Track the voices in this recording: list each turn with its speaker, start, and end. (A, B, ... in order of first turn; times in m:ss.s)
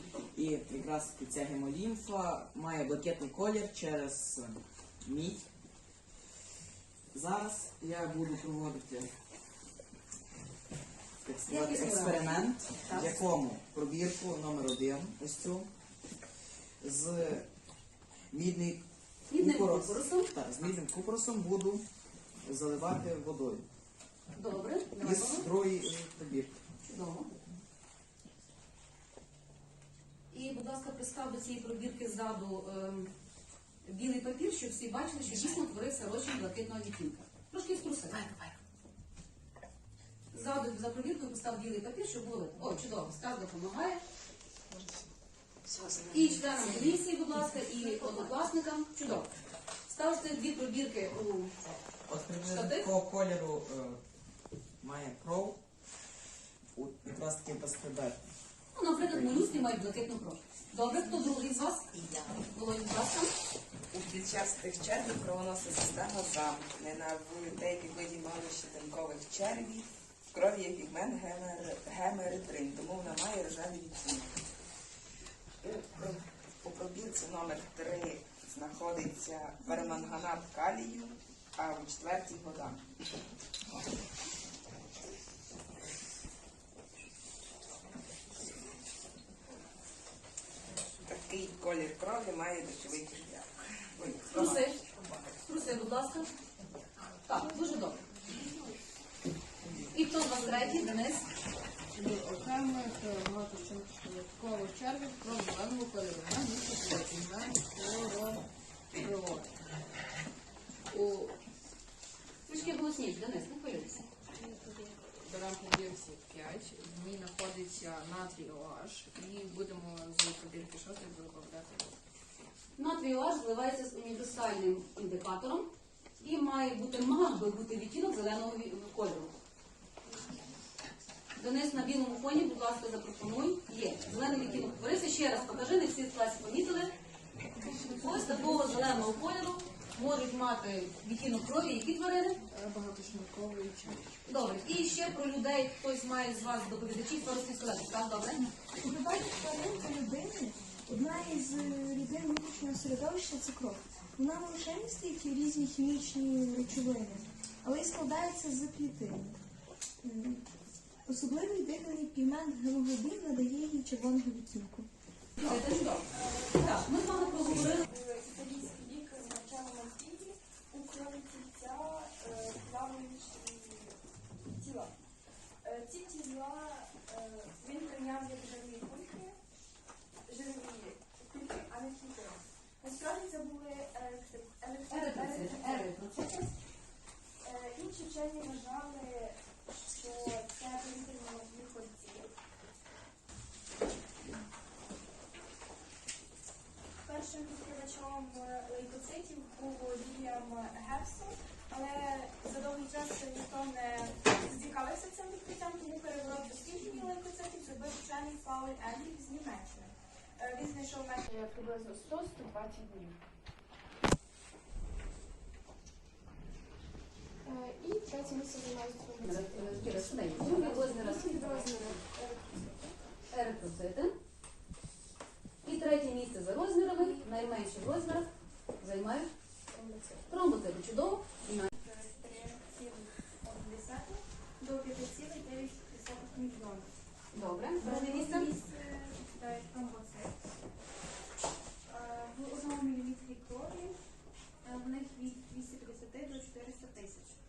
0:00.3-0:05.5 A
0:07.1-0:09.1 A
0:11.2-0:15.7 A
0:11.5-0:13.3 B
0:16.8-0:17.5 A
0:18.3-0:18.8 A
0:19.3-0:20.3 B
0:19.4-0:21.8 A
0:22.4-0:23.6 A
0:24.3-0:25.5 B
0:25.0-0:26.6 A
0:26.8-0:27.3 B
0:30.3-0:33.1 B
0:33.8-0:38.3 B
0:40.3-0:44.0 B
0:45.8-0:46.2 C
0:46.1-0:49.3 B
0:49.9-0:51.5 B
0:52.1-0:54.0 A
0:52.4-0:52.9 B
0:54.8-0:55.6 A
0:56.8-0:58.2 A
0:58.7-1:03.3 B
0:59.0-0:59.5 A
1:03.9-1:14.4 D
1:15.6-1:22.8 D
1:31.1-1:35.2 D
1:34.3-1:34.8 B
1:35.4-1:36.3 B
1:37.2-1:38.0 B
1:39.9-1:41.2 B
1:40.3-1:41.0 E
1:41.9-1:49.5 E
1:50.9-1:51.3 E
1:52.5-1:54.0 B
1:54.5-2:01.9 E
2:02.8-2:09.3 B
2:11.4-2:17.0 B
2:17.6-2:18.6 E
2:18.0-2:22.4 B
2:22.5-2:24.1 E
2:24.2-2:28.5 B
2:28.8-2:39.4 C
2:40.0-2:40.4 C
2:41.0-2:44.9 C
2:45.4-2:47.8 B
2:45.5-2:54.0 F
2:54.5-2:54.9 F
2:55.6-2:59.4 F
3:00.2-3:06.6 F
3:04.9-3:06.2 B
3:07.4-3:12.3 F
3:17.0-3:31.3 F
3:31.3-3:33.1 E
3:39.2-3:42.0 B
3:40.5-3:41.3 F
3:41.0-3:41.9 E
3:42.1-3:42.9 F
3:43.3-3:44.1 B
3:45.6-3:49.3 B
3:49.7-3:50.2 F
3:50.3-3:51.7 B
3:51.7-3:56.9 F
3:57.3-3:58.5 B
3:57.8-4:00.4 F
4:01.8-4:04.0 F
4:04.6-4:07.4 F